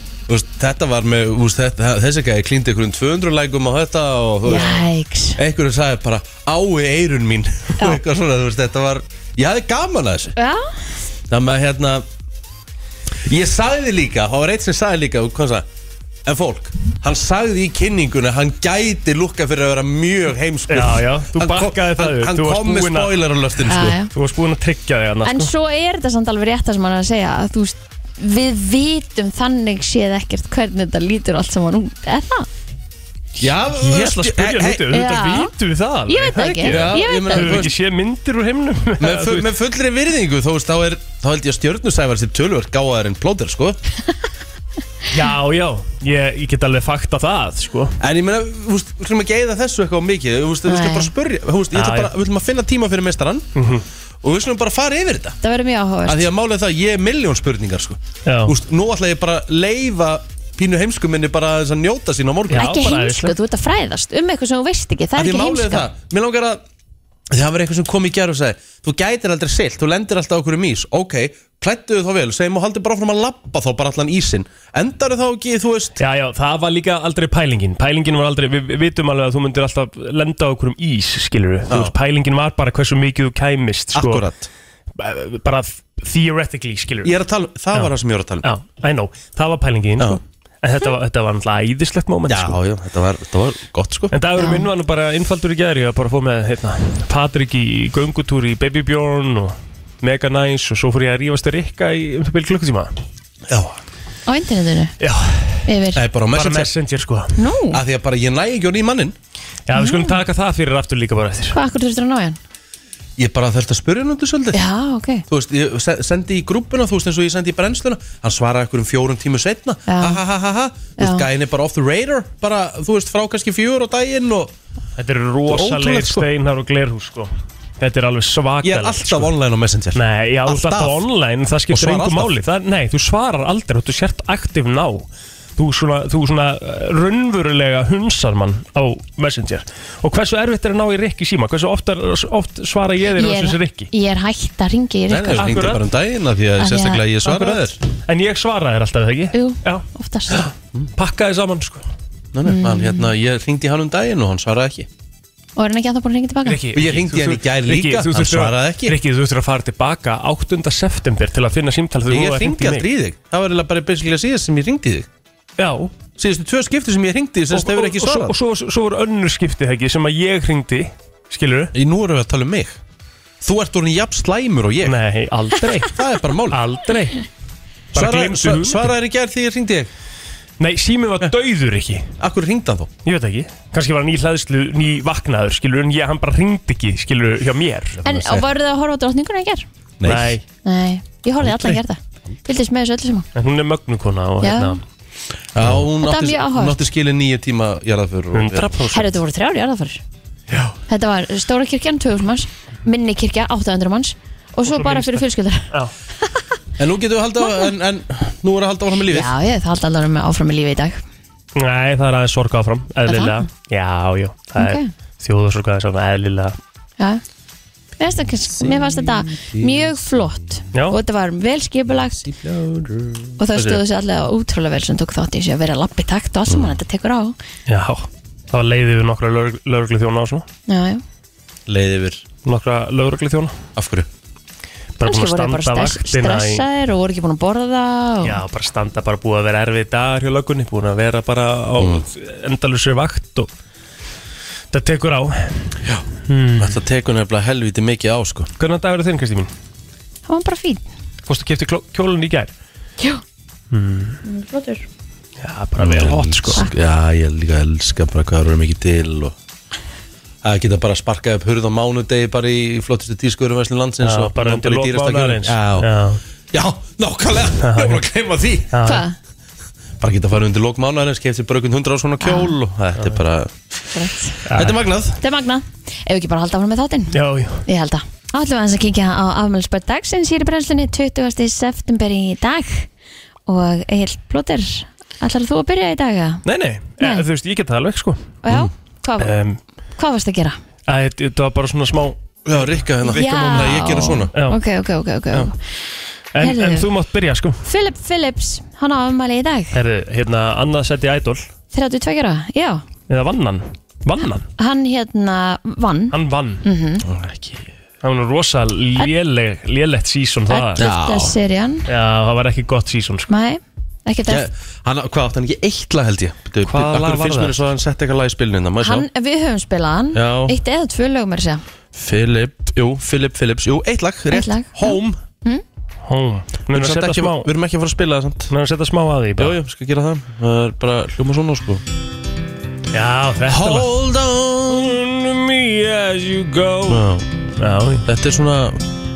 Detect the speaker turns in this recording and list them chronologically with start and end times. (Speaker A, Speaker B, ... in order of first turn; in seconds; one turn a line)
Speaker A: 0.3-10.3
Speaker B: 4.4-5.4
Speaker B: 10.4-10.7
Speaker A: 11.3-12.1
Speaker A: 13.2-15.7
Speaker A: 16.2-24.0
Speaker C: 20.7-25.5
Speaker B: 23.7-24.1
Speaker B: 25.2-32.5
Speaker A: 33.4-34.9
Speaker C: 33.7-39.5
Speaker B: 34.9-35.5
Speaker B: 36.1-37.6
Speaker A: 36.6-37.7
Speaker A: 39.0-43.8
Speaker C: 45.1-48.0
Speaker A: 48.0-53.5
Speaker B: 50.6-51.1
Speaker C: 51.7-52.1
Speaker C: 53.5-53.8
Speaker A: 54.2-55.4
Speaker B: 55.4-56.3
Speaker A: 56.0-62.7
Speaker C: 58.2-58.5
Speaker C: 62.5-63.3
Speaker B: 62.5-65.9
Speaker A: 65.2-66.6
Speaker A: 67.3-76.0
Speaker C: 76.0-84.2
Speaker A: 81.7-81.9
Speaker A: 83.9-84.5
Speaker C: 85.0-87.1
Speaker A: 87.0-88.5
Speaker C: 88.4-92.6
Speaker A: 92.3-94.1
Speaker C: 94.1-102.9
Speaker B: 94.4-94.7
Speaker A: 103.5-103.8
Speaker B: 104.3-104.9
Speaker C: 105.0-105.7
Speaker B: 105.7-106.0
Speaker A: 105.9-106.7
Speaker C: 106.3-107.3
Speaker B: 107.4-107.8
Speaker A: 107.7-109.2
Speaker C: 109.7-111.6
Speaker B: 109.7-110.2
Speaker B: 111.5-112.4
Speaker A: 113.2-114.6
Speaker B: 114.5-115.2
Speaker A: 115.3-124.5
Speaker B: 119.9-120.2
Speaker B: 121.0-121.2
Speaker C: 125.0-129.3
Speaker A: 125.5-126.3
Speaker A: 128.6-131.1
Speaker C: 129.9-143.9
Speaker A: 131.7-132.3
Speaker B: 143.2-145.6
Speaker A: 145.1-147.8
Speaker C: 145.4-145.8
Speaker B: 146.6-147.2
Speaker C: 147.2-151.8
Speaker B: 149.3-150.5
Speaker A: 152.3-154.9
Speaker B: 152.4-153.1
Speaker B: 155.6-156.6
Speaker C: 156.4-162.8
Speaker A: 156.7-159.0
Speaker A: 162.1-165.1
Speaker C: 165.6-165.9
Speaker A: 166.2-168.3
Speaker C: 167.5-171.7
Speaker A: 171.7-172.8
Speaker A: 173.4-175.0
Speaker C: 174.8-177.2
Speaker A: 175.8-176.6
Speaker A: 177.9-179.9
Speaker C: 177.9-178.9
Speaker C: 180.6-182.1
Speaker A: 182.2-182.9
Speaker C: 183.0-188.0
Speaker A: 187.9-188.5
Speaker B: 188.0-189.7
Speaker A: 190.0-190.4
Speaker C: 190.0-190.4
Speaker B: 190.6-193.3
Speaker A: 191.4-191.8
Speaker C: 193.3-194.8
Speaker B: 194.4-194.8
Speaker A: 195.5-199.2
Speaker B: 196.0-196.8
Speaker C: 198.3-198.8
Speaker B: 198.9-200.0
Speaker B: 200.9-205.7
Speaker C: 204.7-205.9
Speaker A: 206.8-209.3
Speaker B: 207.4-207.7
Speaker B: 209.1-211.0
Speaker C: 211.6-216.6
Speaker B: 213.1-213.4
Speaker B: 214.6-214.9
Speaker B: 218.0-222.2
Speaker A: 218.6-220.0
Speaker A: 222.2-223.8
Speaker B: 223.4-227.3
Speaker A: 226.5-226.8
Speaker C: 227.7-230.4
Speaker B: 230.7-231.0
Speaker A: 231.7-232.2
Speaker C: 232.4-233.6
Speaker A: 233.8-234.1
Speaker C: 235.0-236.6
Speaker B: 235.0-238.4
Speaker C: 238.2-243.5
Speaker A: 241.8-242.1
Speaker C: 244.7-245.8
Speaker A: 245.8-248.5
Speaker C: 246.3-246.8
Speaker C: 248.6-249.5
Speaker B: 250.3-250.9
Speaker C: 251.2-252.5
Speaker C: 253.7-254.2
Speaker B: 254.2-254.8
Speaker C: 255.4-256.6
Speaker A: 255.8-259.4
Speaker A: 260.4-265.9
Speaker C: 264.0-266.2
Speaker A: 266.5-268.7
Speaker C: 267.6-268.0
Speaker C: 268.7-269.0
Speaker B: 268.8-269.1
Speaker A: 270.0-275.2
Speaker B: 272.2-272.5
Speaker B: 273.9-274.4
Speaker C: 274.4-274.8
Speaker B: 275.2-282.9
Speaker C: 277.1-277.6
Speaker B: 283.5-286.4
Speaker C: 286.4-288.3
Speaker B: 287.0-287.2
Speaker B: 288.4-289.4
Speaker C: 289.2-289.6
Speaker B: 290.0-290.6
Speaker C: 290.9-292.2
Speaker A: 292.4-294.3
Speaker B: 293.0-295.6
Speaker C: 296.3-297.6
Speaker B: 296.4-296.9
Speaker B: 297.6-299.7
Speaker C: 299.7-301.4
Speaker B: 301.7-302.8
Speaker C: 303.1-304.5
Speaker B: 304.6-307.0
Speaker C: 306.1-306.6
Speaker A: 307.0-307.7
Speaker C: 308.0-310.8
Speaker B: 310.5-311.9
Speaker A: 310.8-311.4
Speaker C: 311.9-313.3
Speaker B: 313.3-314.4
Speaker A: 314.3-319.1
Speaker C: 316.6-317.6
Speaker B: 318.8-321.6
Speaker A: 320.1-320.6
Speaker A: 321.9-325.2
Speaker B: 324.3-325.6
Speaker C: 326.0-327.5
Speaker A: 326.7-328.5
Speaker C: 328.5-329.5
Speaker A: 329.4-331.8
Speaker C: 332.9-333.9
Speaker A: 333.5-335.0
Speaker C: 334.7-338.0
Speaker A: 336.9-337.3
Speaker A: 338.0-338.8